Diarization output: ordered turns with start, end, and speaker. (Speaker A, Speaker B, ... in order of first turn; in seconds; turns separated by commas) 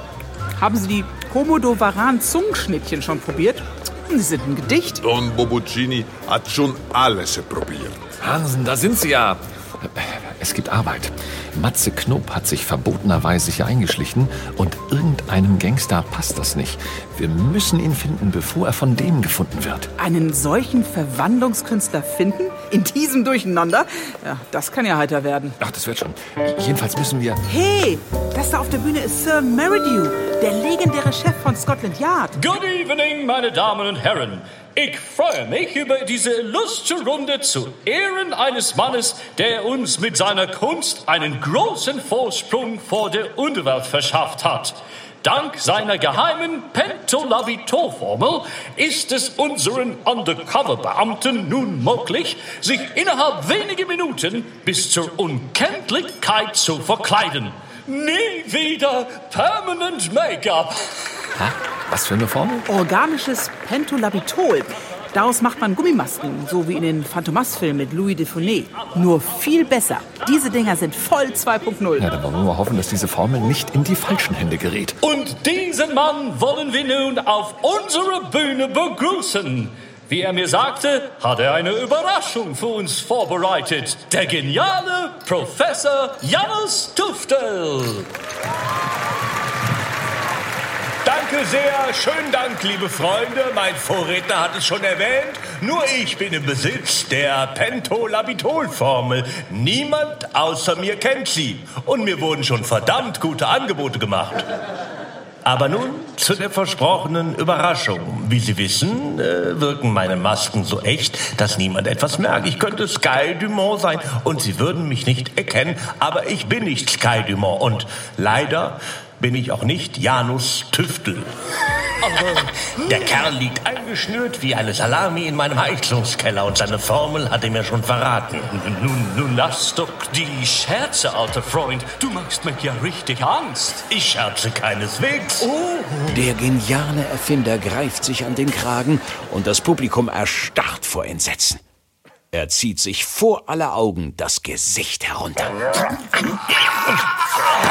Speaker A: 0.6-5.0, Speaker B: 5.0-8.0, Speaker C: 8.2-19.9, Speaker A: 20.0-25.6, Speaker C: 25.6-27.4, Speaker A: 27.4-32.3, Speaker D: 32.4-60.8, Speaker C: 61.4-62.7, Speaker A: 62.7-72.0, Speaker C: 72.0-75.0, Speaker D: 75.0-88.1, Speaker E: 91.0-104.5, Speaker E: 105.5-121.3, Speaker D: 122.1-122.4, Speaker E: 122.3-128.6, Speaker D: 128.5-133.8, Speaker E: 133.9-135.5, Speaker F: 136.1-141.6, Speaker F: 142.3-145.6